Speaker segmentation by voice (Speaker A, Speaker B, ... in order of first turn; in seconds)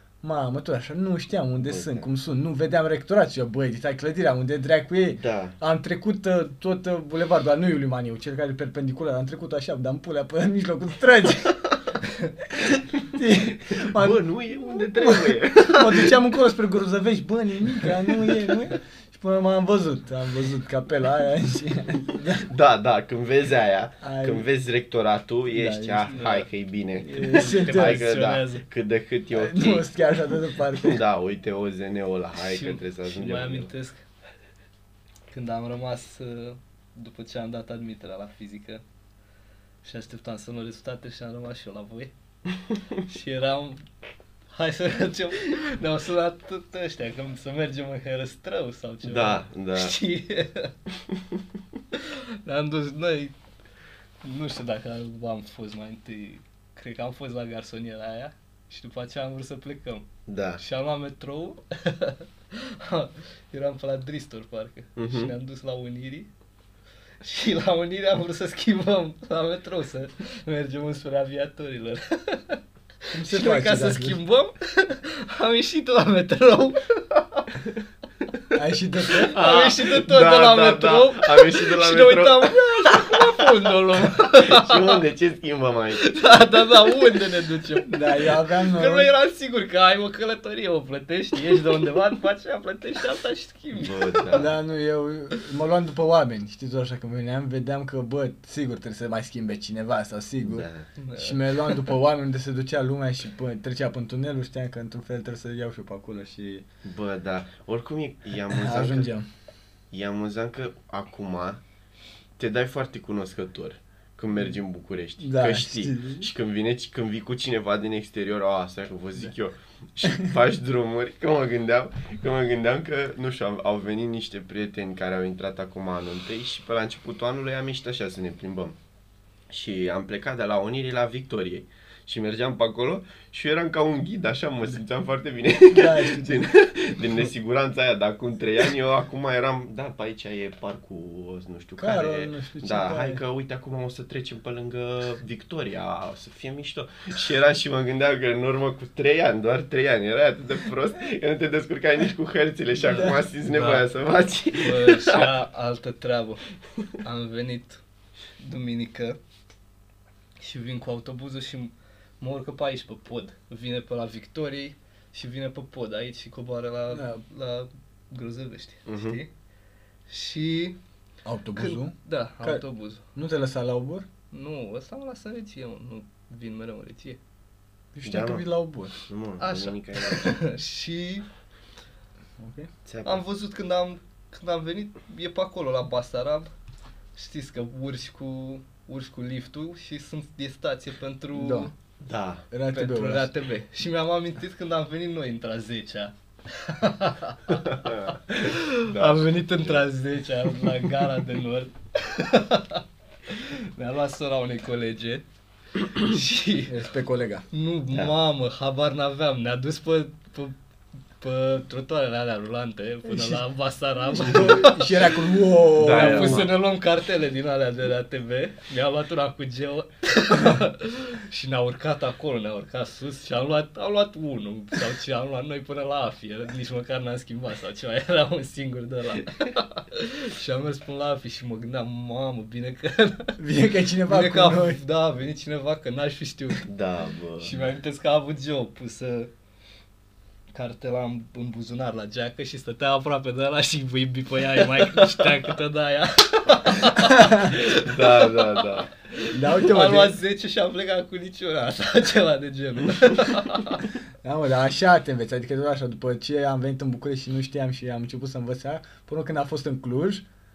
Speaker A: 0.2-11.6, 12.6-22.5, 24.0-24.4, 25.5-26.1, 27.0-28.0, 29.3-31.0, 73.1-74.2, 78.5-79.3, 87.9-89.1, 94.3-106.6, 108.5-109.2, 115.2-116.3, 135.7-136.5, 141.8-143.2, 166.9-167.2, 171.2-172.6, 173.1-174.1, 177.9-178.9, 182.4-182.7, 191.3-191.7, 192.5-193.3, 206.7-207.4, 213.1-213.4, 214.1-216.5, 233.4-234.8, 246.9-247.5, 249.3-250.2, 254.2-260.2
Speaker B: 1.6-2.1, 5.1-5.5, 13.7-16.1, 17.8-18.3, 22.4-29.9, 30.7-33.7, 49.0-50.0, 60.3-60.6, 65.0-65.3, 79.3-83.5, 84.4-86.0, 93.7-94.5, 100.4-100.9, 106.8-109.1, 109.9-111.6, 112.4-128.8, 129.5-155.3, 168.9-169.2, 178.0-178.4, 179.0-180.4, 182.8-183.2, 192.0-192.4, 197.5-199.8, 215.8-216.6, 236.7-237.7, 247.6-248.9
Speaker C: 26.1-26.5, 27.1-28.6, 32.4-34.0, 35.3-38.8, 39.8-42.1, 43.1-43.8, 44.5-50.7, 51.9-53.3, 54.2-60.0, 60.6-66.3, 67.2-72.6, 73.2-77.5, 79.2-85.0, 86.0-94.5, 101.0-101.9, 152.9-153.9, 154.6-156.4, 157.0-157.8, 158.4-159.2, 160.4-169.3, 170.1-170.8, 171.6-173.0, 174.3-177.2, 179.4-181.2, 183.0-186.5, 187.1-191.7, 192.7-197.6, 198.3-205.2, 205.8-206.7, 207.5-210.5, 211.2-215.2, 215.8-233.4, 234.1-236.7, 237.4-239.3, 240.5-253.9